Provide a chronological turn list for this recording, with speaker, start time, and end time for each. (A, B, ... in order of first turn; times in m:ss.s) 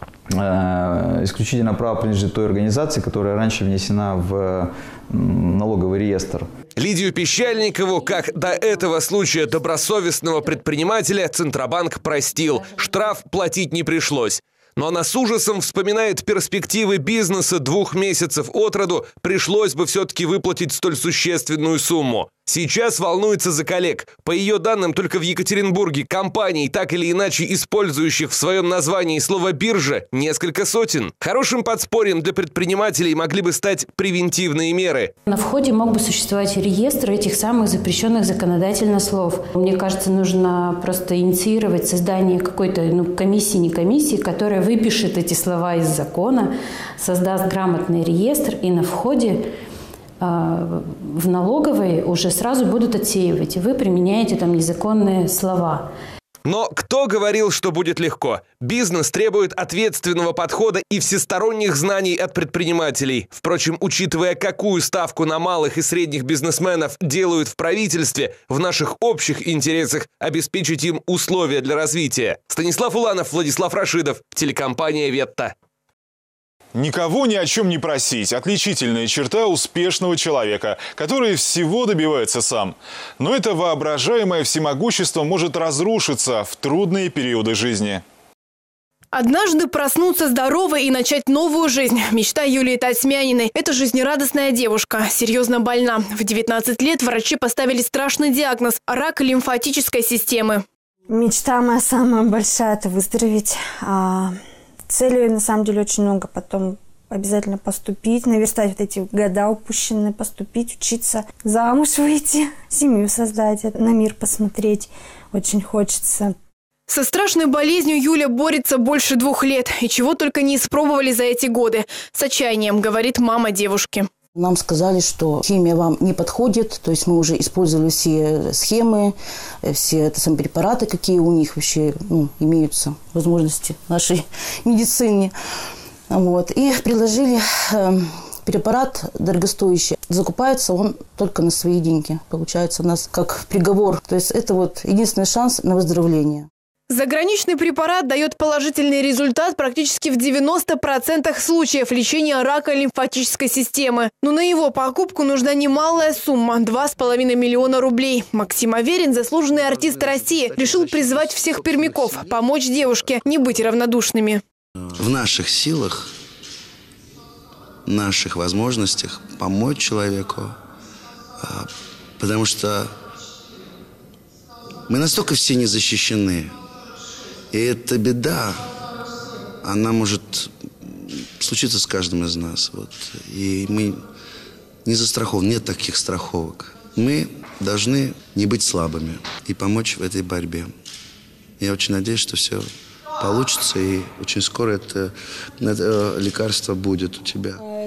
0:00.4-0:06.4 A
0:06.8-0:35.1 B
0:35.3-0:49.4 C
0:50.2-0:55.9 C
0:56.4-1:15.5 B
1:16.7-1:28.0 D
1:29.1-1:40.6 E
1:41.1-1:44.4 F
1:44.9-1:56.4 F
1:56.9-2:04.1 E
2:04.4-2:08.9 G
2:09.7-2:14.1 G
2:14.6-2:15.1 G
2:16.1-2:17.2 G
2:18.5-2:26.4 G
2:22.8-2:23.3 F
2:25.7-2:26.3 F
2:26.9-2:44.4 E
2:39.6-2:42.4 H
2:45.0-2:46.1 H
2:47.8-2:50.5 H
2:51.4-2:52.9 H
2:54.9-2:56.5 H
2:57.5-2:58.6 H
2:59.6-3:04.0 H
3:04.8-3:10.7 H
3:11.6-3:12.6 H
3:13.2-3:17.6 H